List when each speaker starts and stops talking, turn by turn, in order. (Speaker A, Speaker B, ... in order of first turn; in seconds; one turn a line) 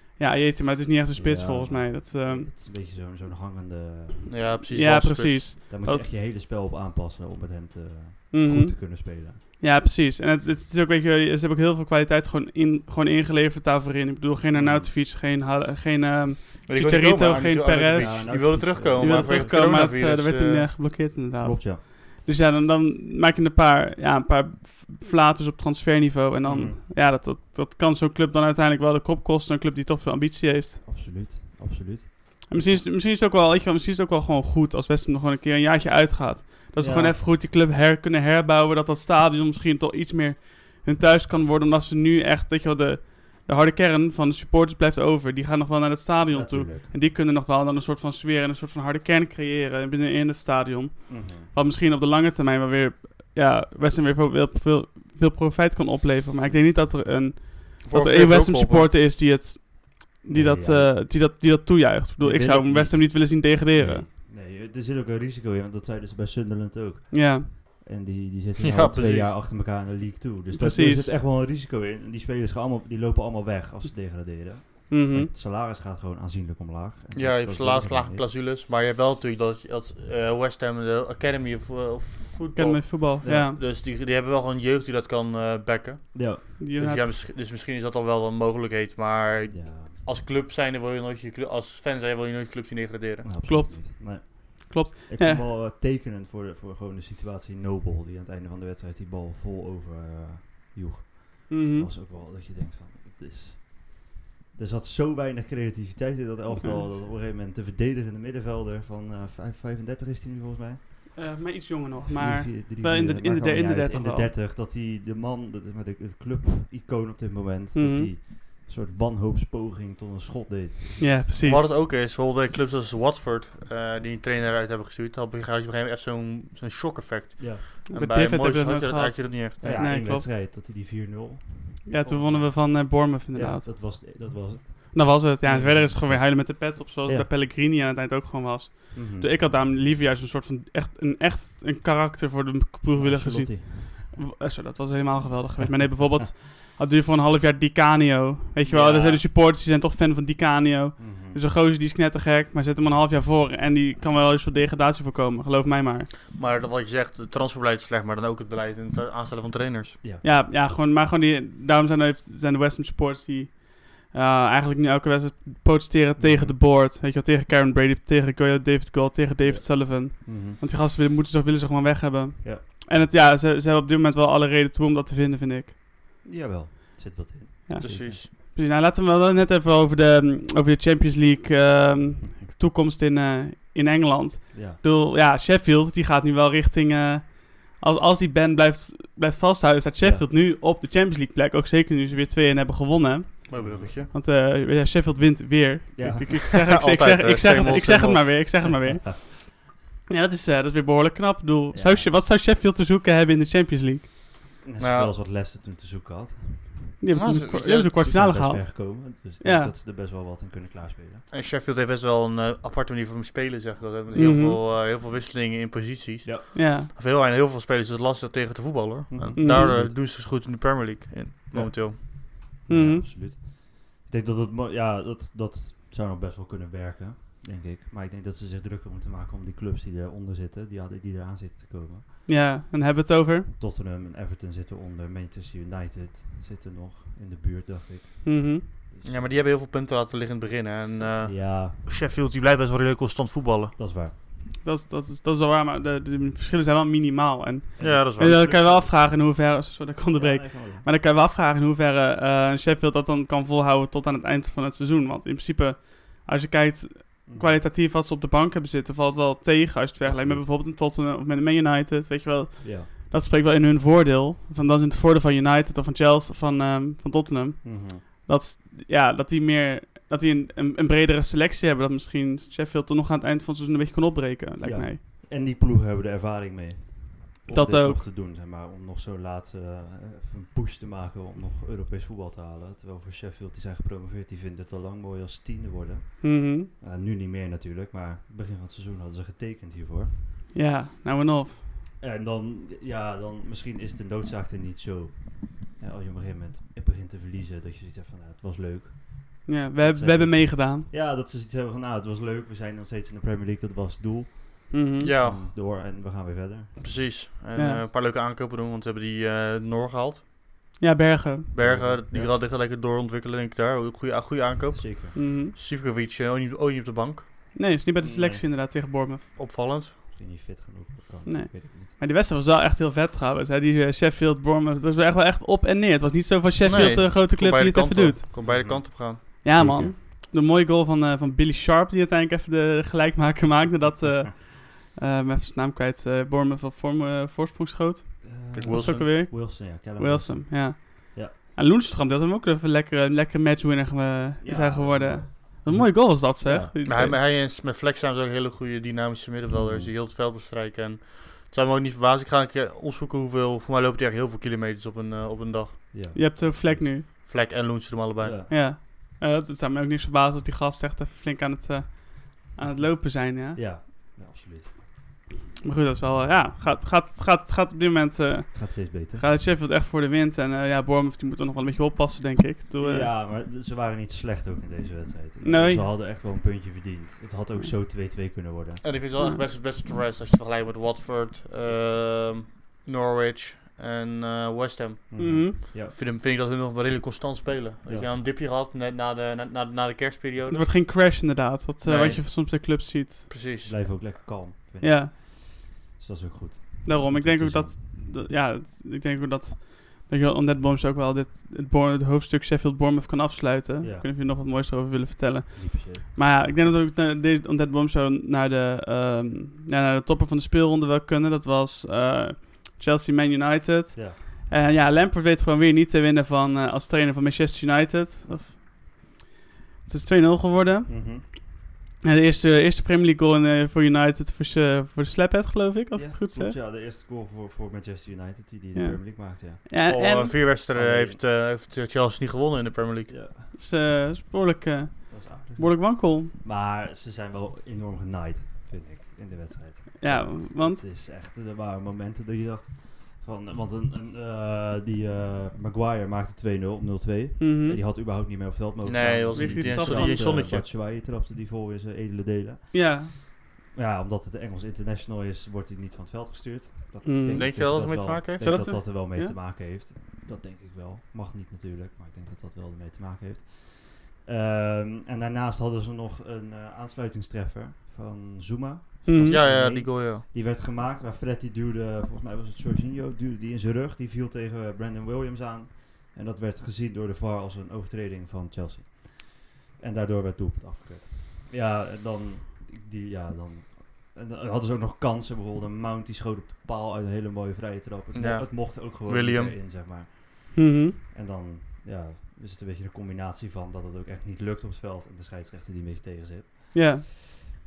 Speaker A: 0.2-2.5
Speaker B: 1.1-4.6
Speaker C: 4.3-5.5
Speaker A: 4.7-6.1
Speaker B: 5.7-9.4
Speaker A: 8.3-30.8
Speaker B: 14.5-14.9
Speaker C: 16.7-20.7
Speaker B: 17.9-19.8
Speaker B: 21.4-21.8
Speaker B: 26.4-26.8
Speaker B: 30.8-32.8
Speaker A: 32.5-64.0
Speaker B: 36.8-37.2
Speaker B: 46.3-46.9
Speaker B: 51.1-51.5
Speaker B: 56.4-56.7
Speaker C: 57.8-58.9
Speaker B: 60.3-61.2
Speaker B: 62.2-78.2
Speaker A: 67.1-67.5
Speaker C: 68.6-69.4
Speaker A: 70.5-71.1
Speaker A: 74.9-75.3
Speaker C: 77.1-93.3
Speaker A: 82.5-83.6
Speaker B: 83.2-83.5
Speaker B: 86.1-86.5
Speaker A: 86.6-87.1
Speaker B: 89.5-90.0
Speaker B: 93.2-111.2
Speaker A: 93.4-95.4
Speaker A: 101.5-101.9
Speaker A: 106.5-106.8
Speaker A: 111.2-114.3
Speaker B: 112.0-121.2
Speaker A: 117.7-118.1
Speaker A: 121.0-121.7
Speaker C: 121.4-129.6
Speaker B: 127.4-127.6
Speaker A: 127.9-130.3
Speaker B: 129.6-137.3
Speaker A: 131.9-134.3
Speaker A: 134.9-156.1
Speaker B: 138.9-139.5
Speaker B: 142.9-144.2
Speaker C: 148.7-149.2
Speaker B: 148.8-149.1
Speaker B: 151.0-151.4
Speaker C: 156.3-160.0
Speaker A: 160.2-175.7
Speaker B: 166.2-166.6
Speaker B: 169.4-170.6
Speaker B: 176.2-178.2
Speaker A: 177.7-204.1
Speaker C: 177.8-178.3
Speaker B: 182.2-182.5
Speaker B: 184.5-184.8
Speaker B: 190.0-190.3
Speaker C: 193.5-194.1
Speaker B: 193.6-194.0
Speaker B: 195.9-196.4
Speaker C: 196.7-198.3
Speaker B: 198.7-199.1
Speaker B: 201.7-202.2
Speaker B: 204.6-206.8
Speaker C: 204.8-205.1
Speaker A: 207.0-209.7
Speaker C: 207.1-207.9
Speaker B: 207.9-211.3
Speaker C: 211.3-222.0
Speaker A: 214.1-214.6
Speaker A: 216.5-216.9
Speaker B: 219.1-220.0
Speaker A: 219.4-219.8
Speaker B: 221.5-232.0
Speaker A: 222.7-223.1
Speaker A: 232.2-233.5
Speaker B: 233.6-239.4
Speaker A: 238.2-238.6
Speaker C: 239.0-243.7
Speaker B: 241.0-241.8
Speaker B: 243.8-244.1
Speaker A: 244.6-275.0
Speaker B: 247.8-249.0
Speaker C: 247.8-248.5
Speaker B: 250.1-250.9
Speaker B: 257.2-257.6
Speaker B: 260.0-260.5
Speaker B: 262.6-262.9
Speaker B: 267.6-268.0
Speaker B: 274.6-290.1
Speaker A: 277.5-278.0
Speaker A: 286.2-286.7
Speaker A: 290.5-291.6
Speaker B: 292.0-306.8
Speaker A: 299.4-300.9
Speaker A: 304.7-305.1
Speaker C: 305.0-305.5
Speaker C: 306.8-310.2
Speaker A: 307.5-307.8
Speaker A: 310.8-311.5
Speaker C: 311.5-317.3
Speaker B: 311.6-312.4
Speaker B: 314.7-315.2
Speaker A: 315.1-315.5
Speaker A: 317.5-319.2
Speaker B: 318.0-318.4
Speaker C: 319.4-319.9
Speaker B: 320.1-321.9
Speaker A: 321.2-328.5
Speaker C: 326.6-329.2
Speaker B: 326.7-327.0
Speaker B: 328.5-329.9
Speaker A: 329.4-347.2
Speaker B: 338.2-341.4
Speaker C: 338.5-339.1
Speaker B: 344.4-346.7
Speaker C: 346.9-355.9
Speaker B: 349.5-349.9
Speaker B: 355.9-356.9
Speaker A: 356.1-357.1
Speaker C: 357.0-358.4
Speaker B: 358.2-358.6
Speaker A: 358.5-363.6
Speaker B: 363.5-364.7
Speaker A: 365.6-373.1
Speaker B: 368.5-369.3
Speaker B: 372.8-378.9
Speaker A: 375.4-375.9
Speaker C: 378.8-390.7
Speaker B: 385.1-385.9
Speaker A: 385.2-385.6
Speaker B: 387.9-388.1
Speaker A: 390.5-393.3
Speaker C: 391.9-392.3
Speaker C: 393.3-393.9
Speaker B: 393.6-397.8
Speaker A: 394.8-395.1
Speaker A: 396.9-419.1
Speaker B: 403.8-404.1
Speaker B: 405.5-406.0
Speaker A: 419.9-426.6
Speaker B: 420.9-421.3
Speaker B: 425.9-429.6
Speaker A: 428.8-430.4
Speaker C: 429.9-433.1
Speaker B: 430.7-431.2
Speaker B: 433.1-433.5
Speaker A: 433.5-436.3
Speaker B: 435.1-497.2
Speaker A: 440.0-440.8
Speaker A: 447.4-447.8
Speaker C: 448.8-450.6
Speaker A: 449.3-450.3
Speaker A: 452.7-453.1
Speaker A: 457.0-459.4
Speaker C: 457.3-458.6
Speaker A: 469.1-469.4
Speaker C: 469.2-470.2
Speaker C: 488.1-489.5
Speaker A: 490.5-491.0
Speaker A: 496.7-497.0